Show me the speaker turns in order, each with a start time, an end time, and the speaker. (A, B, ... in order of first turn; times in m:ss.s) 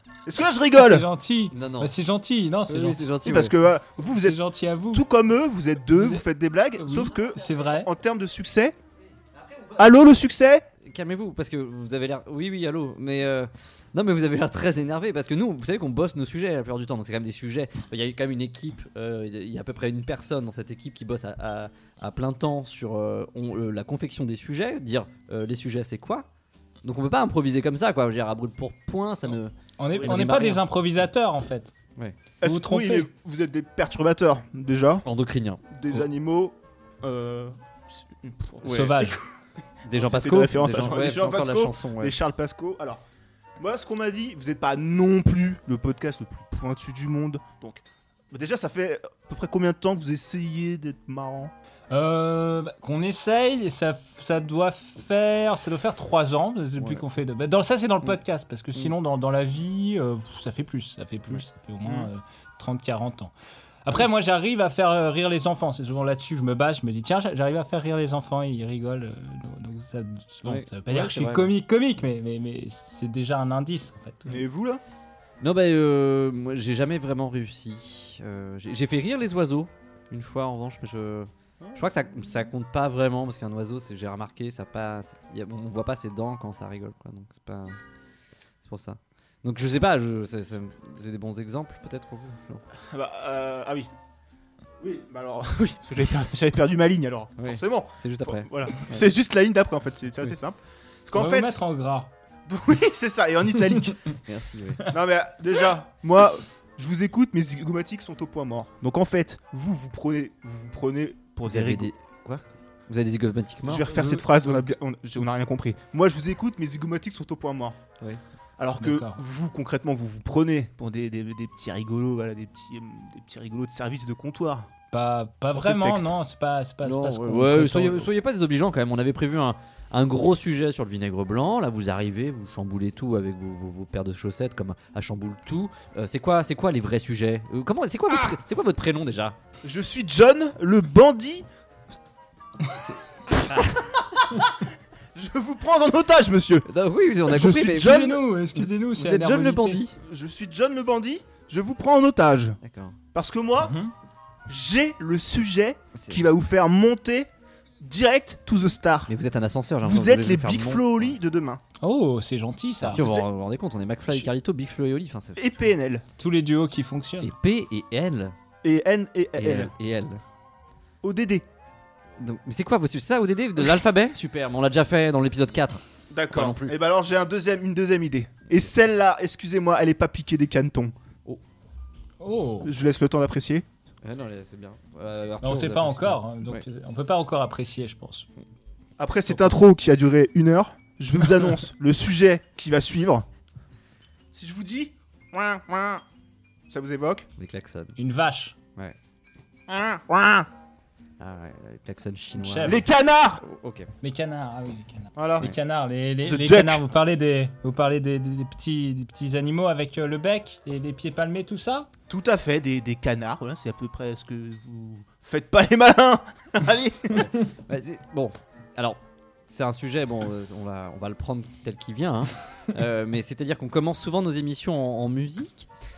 0:00.2-0:01.0 A
0:00.7-0:03.1 B
0:01.5-0:01.9 C
0:02.7-0:03.5 C
0:03.2-0:04.4 A
0:04.0-0:05.0 B
0:04.9-0:08.8 A
0:05.9-0:06.2 B
0:06.8-0:07.9 B
0:09.5-0:09.7 C
0:09.8-0:10.6 A
0:10.8-0:26.2 C
0:26.8-0:30.6 C
0:29.8-0:31.7 B
0:32.4-0:35.0 A
0:32.4-0:33.1 B
0:35.0-0:36.0 C
0:35.7-0:39.2 A
0:38.6-0:38.9 C
0:38.6-0:39.2 B
0:39.8-0:42.2 C
0:39.9-0:43.0 A
0:43.6-0:51.5 A
0:51.9-1:03.3 B
1:03.8-1:14.4 B
1:10.4-1:11.5 C
1:14.3-1:14.8 A
1:15.4-1:27.8 C
1:28.6-1:32.6 C
1:32.9-1:33.9 A
1:34.8-1:41.6 A
1:37.4-1:39.1 C
1:41.1-1:42.1 B
1:42.5-1:44.0 A
1:44.2-1:44.9 C
1:44.8-1:51.9 A
1:51.4-1:54.0 C
1:53.6-1:57.8 A
1:58.6-2:04.7 A
1:58.8-1:59.2 B
2:04.9-2:08.1 B
2:05.5-2:06.1 A
2:06.8-2:19.4 C
2:19.6-2:21.4 A
2:22.8-2:23.8 C
2:23.5-2:26.7 A
2:26.6-2:29.9 C
2:27.2-2:28.2 A
2:27.7-2:29.8 B
2:30.0-2:32.6 A
2:32.6-2:33.0 C
2:33.1-2:33.8 A
2:33.6-2:33.9 B
2:34.5-2:37.3 A
2:35.9-2:36.2 C
2:37.8-2:39.1 A
2:39.1-2:41.1 C
2:39.8-2:41.6 A
2:41.8-2:43.0 B
2:42.8-2:45.4 C
2:42.9-2:43.2 A
2:45.4-2:46.0 A
2:46.2-2:47.3 B
2:47.2-2:48.3 C
2:48.6-2:49.7 A
2:49.4-2:50.2 C
2:51.0-2:51.4 A
2:52.2-2:56.8 C
2:56.1-3:00.9 A
3:02.2-3:02.7 B
3:02.6-3:03.6 A
3:04.0-3:06.6 C
3:05.4-3:08.3 B
3:09.0-3:13.2 A
3:14.3-3:16.0 A
3:16.7-3:17.3 A
3:17.4-3:18.0 C
3:18.0-3:18.5 B
3:19.7-3:20.5 A
3:21.2-3:22.8 C
3:22.3-3:22.8 B
3:22.6-3:23.4 A
3:23.4-3:23.9 C
3:24.0-3:31.9 B
3:25.2-3:25.5 A
3:26.2-3:26.8 A
3:32.1-3:37.3 A
3:37.2-3:45.7 C